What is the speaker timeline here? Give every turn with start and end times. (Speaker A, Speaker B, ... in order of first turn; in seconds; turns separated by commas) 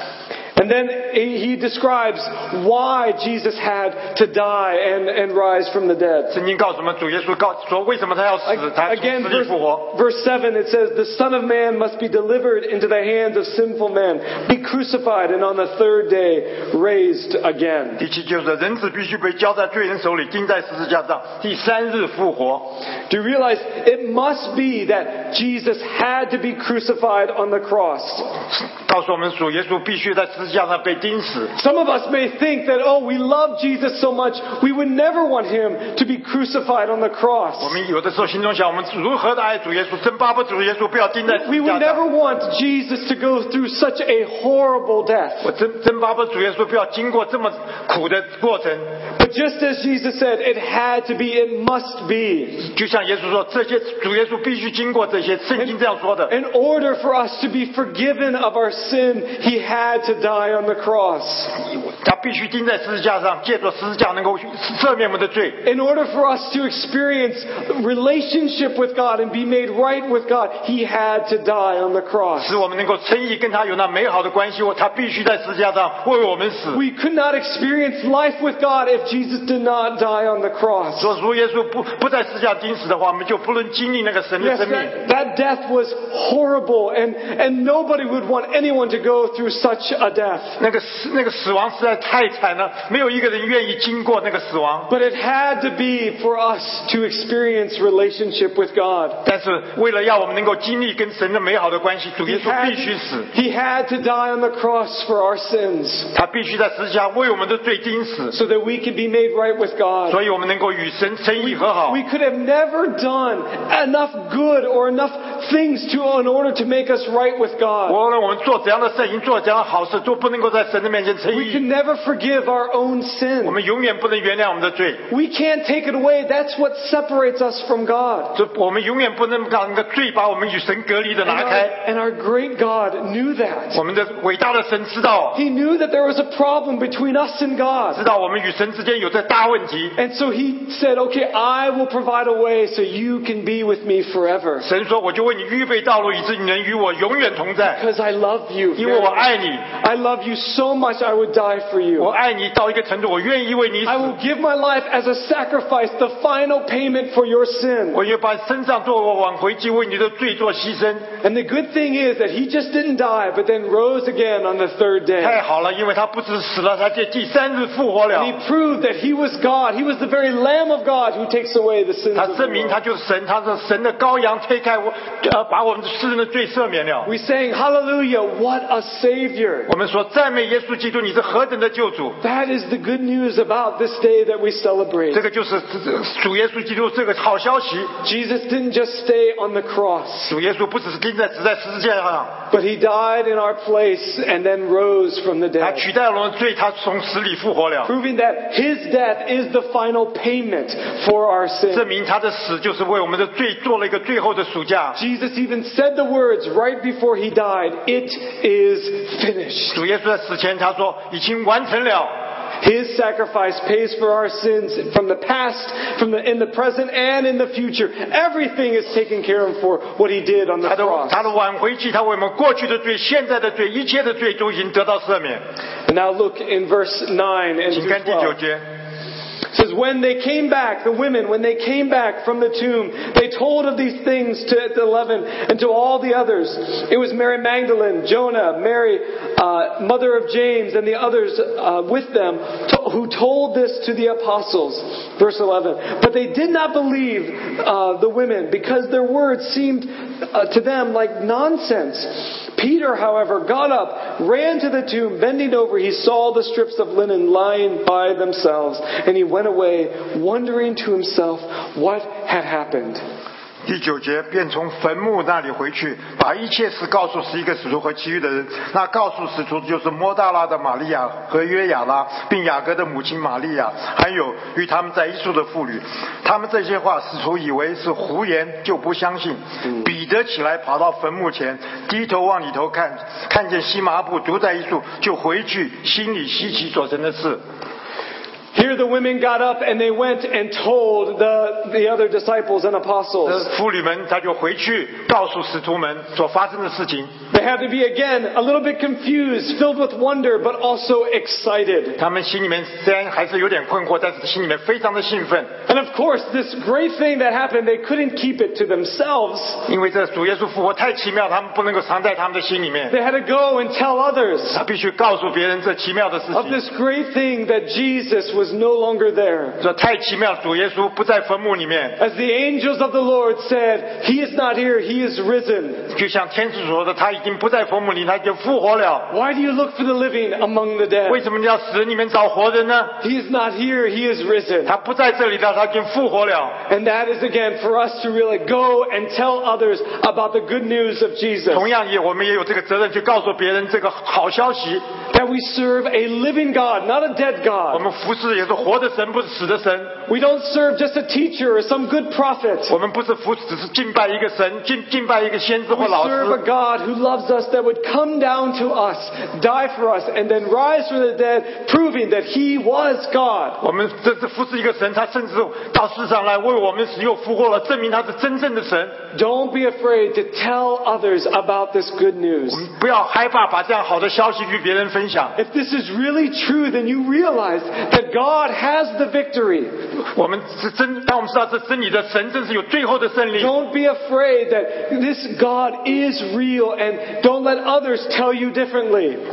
Speaker A: 0.6-6.3, Speaker B: 6.3-9.8, Speaker A: 8.5-18.0, Speaker B: 18.0-22.6, Speaker A: 23.1-28.3, Speaker B: 28.5-31.5, Speaker A: 31.5-37.8, Speaker B: 37.6-42.0, Speaker A: 41.3-45.5, Speaker B: 45.4-48.9, Speaker A: 49.2-52.6, Speaker B: 52.6-56.3, Speaker A: 56.3-61.5, Speaker B: 61.7-65.6, Speaker A: 65.6-72.6, Speaker B: 72.4-76.8, Speaker A: 76.7-81.1, Speaker B: 81.0-84.9, Speaker A: 84.4-90.6, Speaker B: 90.6-94.9, Speaker A: 94.9-99.2, Speaker B: 99.2-103.3, Speaker A: 102.2-106.1, Speaker B: 106.1-108.3, Speaker A: 108.3-110.2, Speaker B: 110.1-112.0, Speaker A: 111.4-118.0, Speaker B: 117.9-121.6, Speaker A: 121.3-123.6, Speaker B: 123.4-125.0, Speaker A: 125.1-128.3, Speaker B: 128.3-131.7, Speaker A: 131.2-133.8, Speaker B: 133.7-135.4, Speaker A: 135.3-138.0, Speaker B: 137.9-139.9, Speaker A: 140.0-144.7, Speaker B: 144.6-147.8, Speaker A: 147.7-152.1, Speaker B: 148.8-149.6, Speaker B: 152.0-154.1, Speaker A: 153.8-158.0, Speaker B: 157.9-161.1, Speaker A: 161.2-165.4, Speaker B: 165.2-168.3, Speaker A: 168.1-172.8, Speaker B: 172.1-177.1, Speaker A: 177.0-179.7, Speaker B: 179.7-182.2, Speaker A: 182.2-185.2, Speaker B: 185.1-187.9, Speaker A: 188.0-190.3, Speaker B: 190.3-192.3, Speaker A: 192.5-195.8, Speaker B: 195.6-197.9, Speaker A: 197.8-201.9, Speaker B: 201.7-205.0, Speaker A: 204.9-209.8, Speaker B: 209.7-212.1, Speaker A: 212.6-221.3, Speaker B: 220.6-225.4, Speaker A: 225.9-228.4, Speaker B: 227.7-228.6, Speaker A: 229.5-263.0, Speaker B: 263.6-287.4, Speaker A: 288.5-293.5, Speaker B: 293.2-297.1, Speaker A: 297.3-302.0, Speaker B: 302.0-305.5, Speaker A: 305.7-309.6, Speaker B: 309.7-312.9, Speaker A: 312.9-314.6, Speaker B: 314.5-316.6, Speaker A: 316.3-319.6, Speaker B: 319.6-322.0, Speaker A: 322.0-325.9, Speaker B: 325.9-329.1, Speaker A: 329.1-331.2, Speaker B: 331.1-333.0, Speaker A: 333.0-334.7, Speaker B: 334.6-336.6, Speaker A: 336.7-341.6, Speaker B: 341.5-344.8, Speaker A: 345.1-347.8, Speaker B: 347.7-350.0, Speaker A: 350.1-352.7, Speaker B: 352.7-356.4, Speaker A: 355.7-363.6, Speaker B: 363.6-368.9, Speaker A: 369.1-372.6, Speaker B: 372.5-375.4, Speaker A: 375.4-379.7, Speaker B: 380.1-383.5, Speaker A: 383.4-389.2